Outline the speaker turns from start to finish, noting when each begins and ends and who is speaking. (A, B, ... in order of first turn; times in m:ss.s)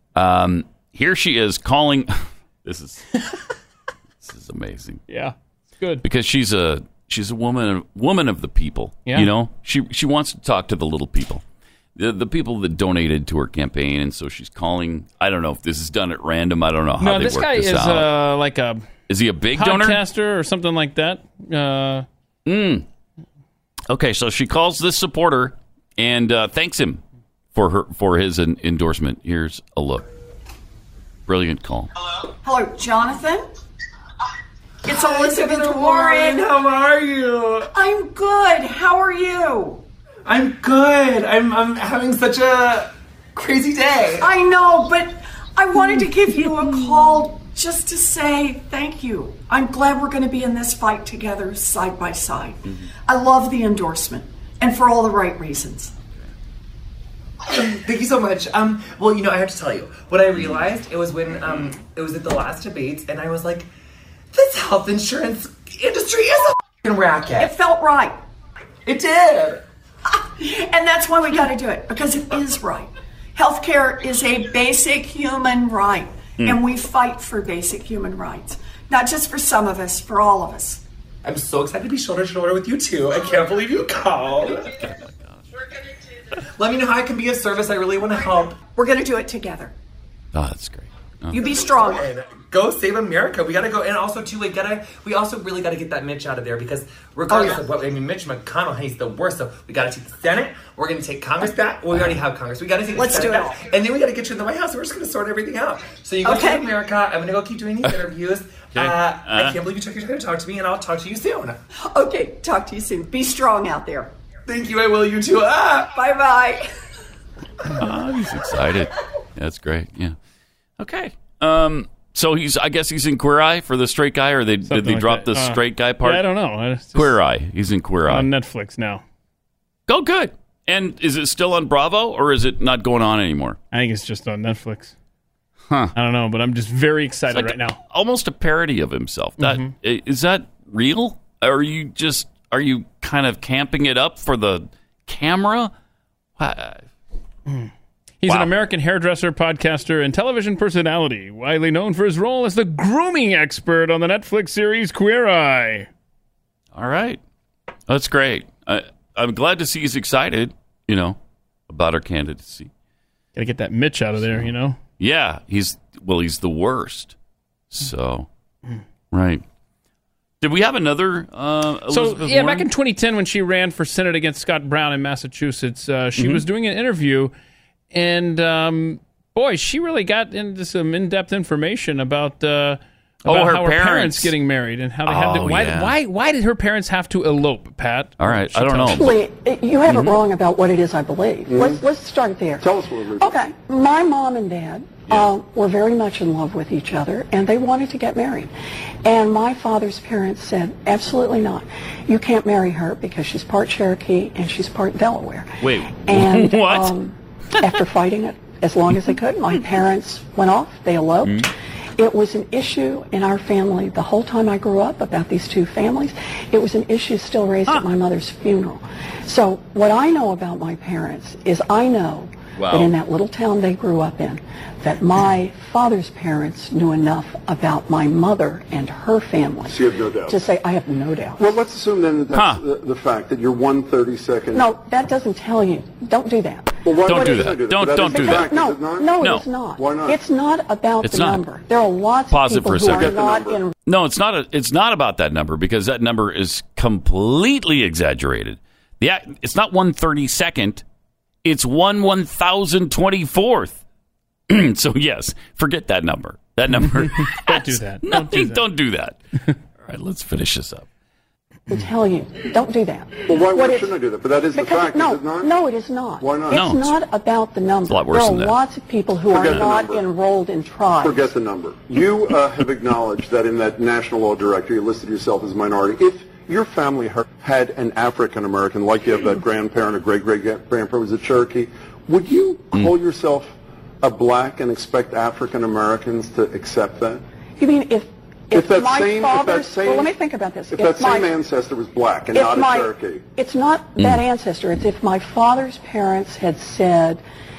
0:00.1-0:03.1 A
0:04.2-0:05.0 A
0:05.1-0:06.0 B
0:06.0-0:11.4 A
0:12.0-0:18.1 A
0:17.0-0:18.8 B
0:19.1-0:20.0 A
0:19.6-0:22.0 B
0:22.4-0:22.8 A
0:23.9-0:27.0 A
0:27.5-0:30.1 A
0:31.3-0:31.9 A
0:32.4-0:33.5 C
0:34.8-0:36.6 C
0:34.9-0:37.7 D
0:37.7-0:39.8 C
0:40.2-0:44.3 D
0:44.2-0:55.9 C
0:57.5-1:03.7 D
1:04.3-1:07.5 D
1:07.4-1:08.2 C
1:08.8-1:09.6 D
1:10.4-1:20.8 C
1:21.2-1:24.7 D
1:24.6-1:25.4 A
1:26.6-1:28.6 D
1:28.7-1:29.7 C
1:30.3-1:31.4 A
1:31.3-1:32.1 C
1:31.8-1:51.6 D
1:37.3-1:37.6 C
1:42.9-1:43.6 C
1:46.2-1:46.7 C
1:48.8-1:49.6 A
1:51.8-1:54.1 C
1:54.5-1:56.0 D
1:55.9-1:56.7 C
1:57.8-2:00.2 A
2:00.8-2:06.2 A
2:04.7-2:07.2 B
2:06.9-2:08.3 A
2:08.1-2:09.0 B
2:09.9-2:13.6 A
2:13.7-2:14.9 B
2:16.0-2:17.8 B
2:17.3-2:25.7 A
2:19.4-2:19.7 B
2:26.4-2:26.8 A
2:27.5-2:35.9 B
2:36.7-2:37.2 A
2:37.9-2:41.2 A
2:41.7-2:42.7 A
2:43.4-2:44.8 B
2:44.2-2:47.2 A
2:47.7-2:48.3 A
2:49.1-2:49.4 A
2:50.4-2:52.6 A
2:51.9-2:57.3 B
2:56.2-2:56.4 A
2:57.9-3:09.0 B
3:03.2-3:04.3 A
3:05.0-3:05.9 A
3:08.2-3:09.2 A
3:08.9-3:12.6 E
3:09.8-3:10.2 A
3:11.5-3:11.8 F
3:12.6-3:13.4 F
3:13.2-3:18.5 E
3:19.0-3:31.4 E
3:25.6-3:26.9 A
3:32.0-3:51.4 E
3:42.6-3:42.9 A
3:49.7-3:50.4 F
3:51.4-3:54.6 F
3:52.3-3:52.6 A
3:54.5-3:57.4 E
3:56.8-3:59.1 F
3:57.0-3:58.6 A
3:58.0-4:03.7 E
3:59.2-3:59.5 A
3:59.8-4:00.2 F
4:01.0-4:01.4 A
4:02.3-4:03.2 A
4:02.8-4:03.6 F
4:03.8-4:10.8 A
4:11.4-4:13.8 A
4:14.5-4:19.2 A
4:16.8-4:18.6 B
4:19.8-4:20.8 A
4:21.7-4:23.9 E
4:23.2-4:25.6 F
4:24.5-4:31.3 E
4:26.2-4:26.6 F
4:26.5-4:27.0 A
4:27.8-4:28.6 A
4:29.3-4:30.0 F
4:31.0-4:47.2 F
4:47.6-4:51.4 E
4:48.5-4:50.1 F
4:50.7-4:53.2 F
4:52.3-4:57.2 E